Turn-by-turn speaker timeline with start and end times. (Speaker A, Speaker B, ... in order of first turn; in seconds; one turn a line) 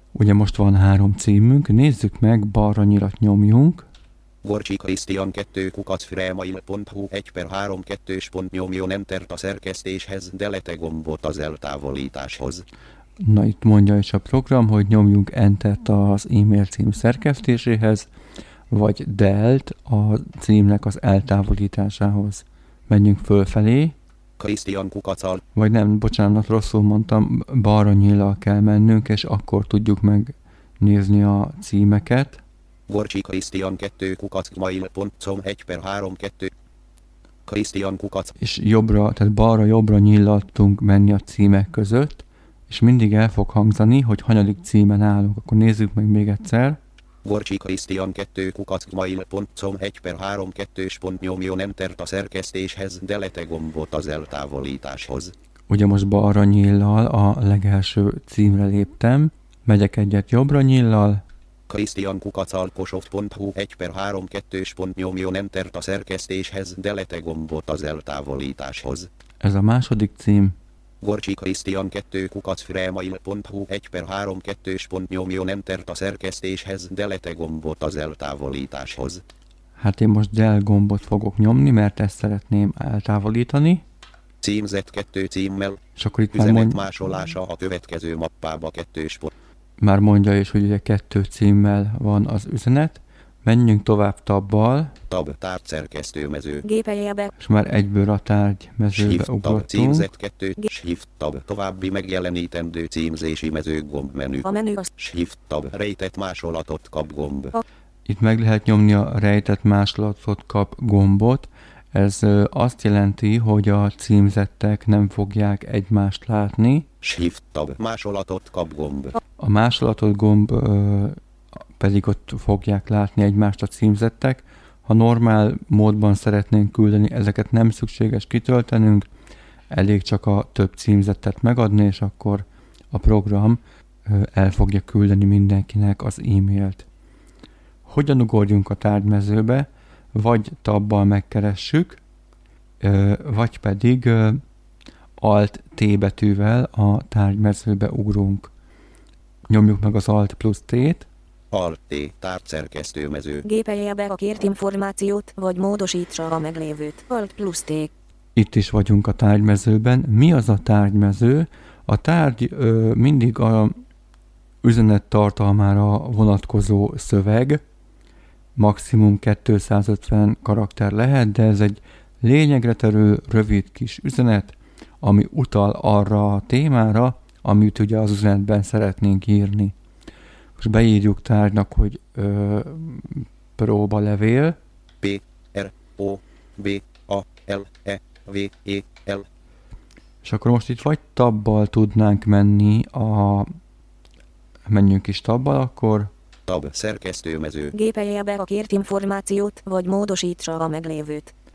Speaker A: 0.1-3.9
Speaker B: 4.4-12.6
Speaker A: 13.2-18.1
Speaker A: 18.7-23.9
Speaker B: 24.4-25.4
Speaker A: 25.5-32.4
Speaker B: 32.9-36.5
Speaker B: 37.5-38.4
Speaker A: 38.4-46.8
Speaker B: 47.2-55.3
Speaker A: 55.7-61.2
Speaker B: 61.7-69.1
Speaker A: 69.4-70.5
Speaker B: 71.0-79.2
Speaker A: 79.8-83.8
Speaker B: 84.4-89.3
Speaker A: 86.0-86.8
Speaker A: 89.8-94.9
Speaker B: 95.1-96.7
Speaker C: 96.6-97.3
Speaker A: 97.4-100.1
Speaker B: 98.9-107.6
Speaker C: 104.4-104.9
Speaker A: 108.0-116.9
Speaker B: 117.0-119.2
Speaker A: 119.4-121.2
Speaker A: 121.8-129.1
Speaker A: 129.7-136.8
Speaker A: 137.9-142.0
Speaker A: 142.8-144.4
Speaker A: 145.2-148.5
Speaker A: 149.5-151.1
Speaker B: 151.5-153.4
Speaker C: 153.4-157.9
Speaker A: 158.3-163.8
Speaker A: 164.6-167.6
Speaker A: 168.6-179.7
Speaker A: 180.6-184.6
Speaker B: 185.0-189.2
Speaker A: 190.2-193.5
Speaker A: 194.7-196.1
Speaker B: 196.5-197.7
Speaker C: 197.7-201.3